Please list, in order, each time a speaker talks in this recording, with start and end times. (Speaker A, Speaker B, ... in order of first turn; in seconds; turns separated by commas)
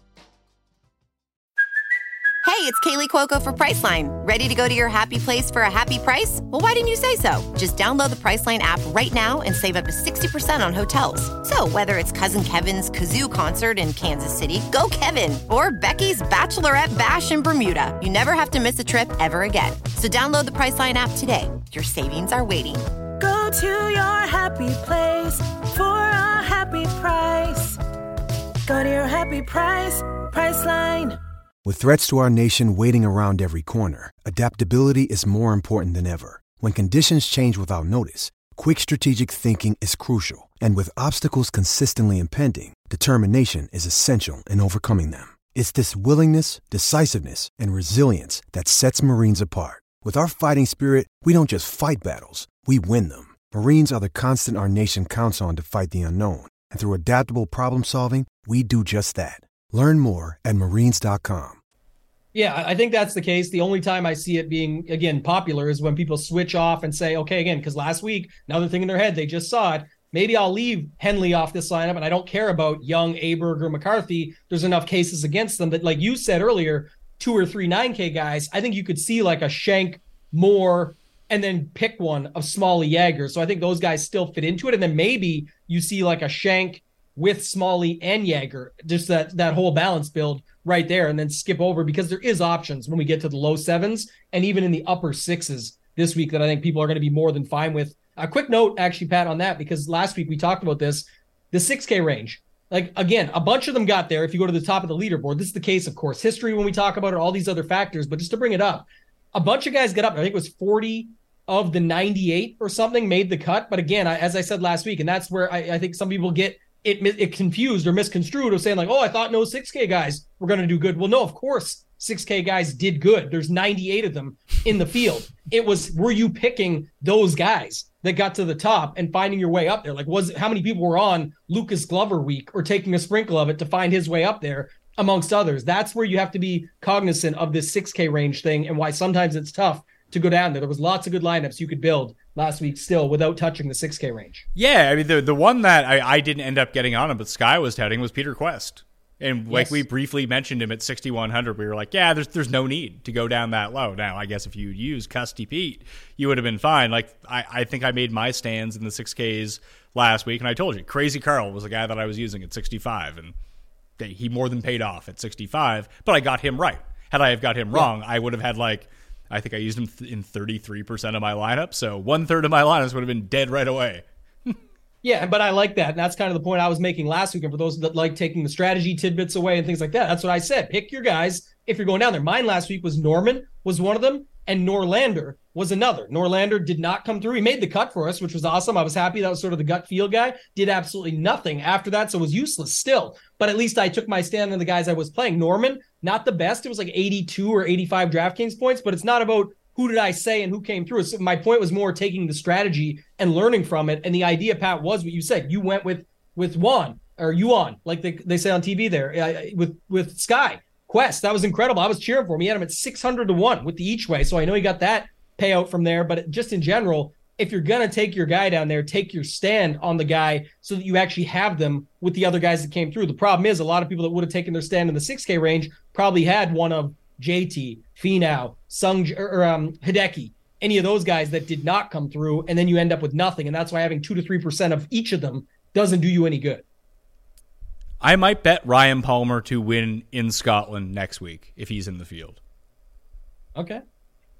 Speaker A: 2.4-22.8, Speaker B: 23.2-27.8, Speaker B: 28.6-31.2, Speaker C: 31.6-61.6, Speaker D: 62.3-144.4, Speaker E: 144.6-163.3, Speaker D: 149.5-149.8, Speaker E: 164.0-174.6, Speaker D: 175.0-236.6, Speaker E: 238.0-242.4, Speaker D: 243.6-243.8